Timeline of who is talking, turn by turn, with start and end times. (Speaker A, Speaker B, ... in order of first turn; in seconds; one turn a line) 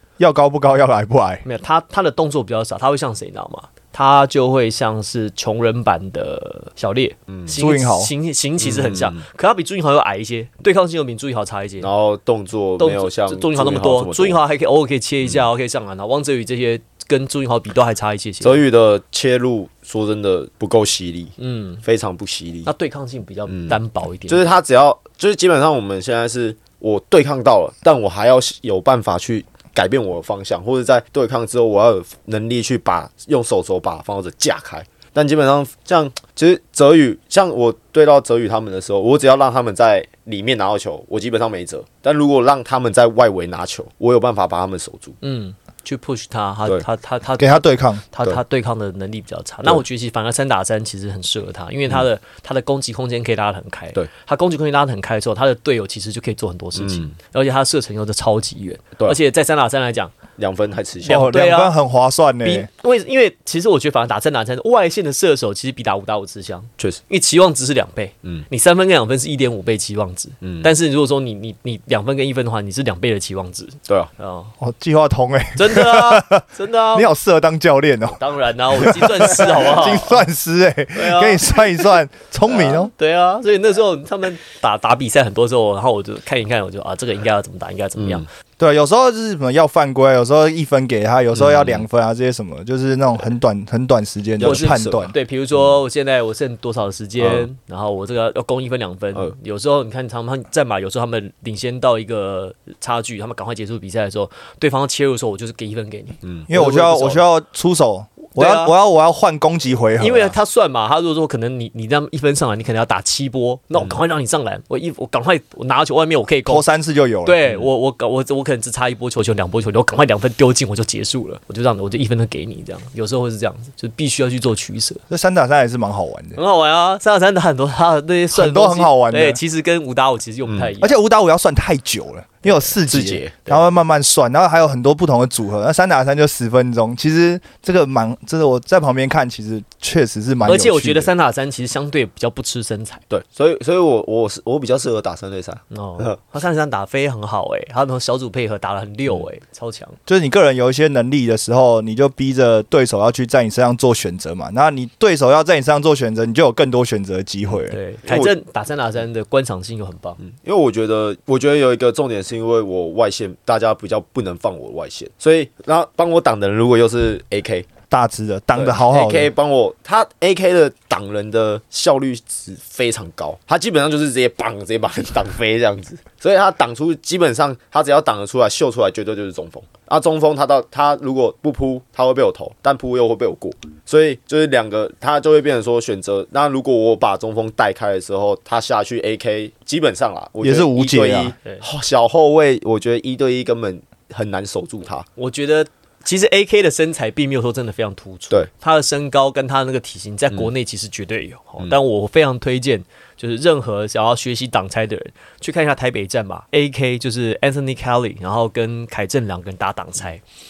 Speaker A: 0.2-1.4
Speaker B: 1.4-11.9
Speaker A: 7.5-8.1
Speaker C: 8.6-9.2
Speaker C: 11.8-14.4
Speaker B: 12.8-18.6
Speaker C: 18.4-22.7
Speaker B: 21.4-21.8
Speaker B: 22.6-24.4
Speaker C: 23.5-45.2
Speaker B: 45.2-60.1
Speaker A: 47.4-48.0
Speaker C: 56.8-57.1
Speaker C: 60.4-61.3
Speaker B: 61.0-61.7
Speaker A: 61.1-62.7
Speaker B: 62.4-74.5
Speaker C: 70.4-70.7
Speaker A: 74.6-78.2
Speaker B: 75.6-77.1
Speaker B: 78.1-80.3
Speaker A: 78.7-82.9
Speaker B: 80.9-81.9
Speaker B: 82.5-88.2
Speaker C: 88.0-88.2
Speaker A: 88.6-95.1
Speaker C: 91.3-91.8
Speaker C: 94.4-95.7
Speaker B: 94.4-107.2
Speaker C: 97.2-97.5
Speaker C: 106.2-106.5
Speaker A: 106.5-110.3
Speaker B: 108.3-108.7
Speaker B: 110.0-116.6
Speaker A: 116.5-117.4
Speaker B: 117.2-125.0
Speaker A: 125.1-126.4
Speaker B: 126.3-131.0
Speaker A: 128.3-129.4
Speaker C: 130.4-130.7
Speaker A: 130.8-141.1
Speaker C: 132.8-133.4
Speaker B: 140.4-143.0
Speaker C: 143.1-146.2
Speaker B: 145.7-150.0
Speaker A: 150.1-157.8
Speaker B: 157.7-160.2
Speaker C: 158.1-158.3
Speaker C: 160.2-167.7
Speaker A: 167.9-169.3
Speaker C: 168.5-195.1
Speaker A: 190.4-191.3
Speaker B: 195.2-210.2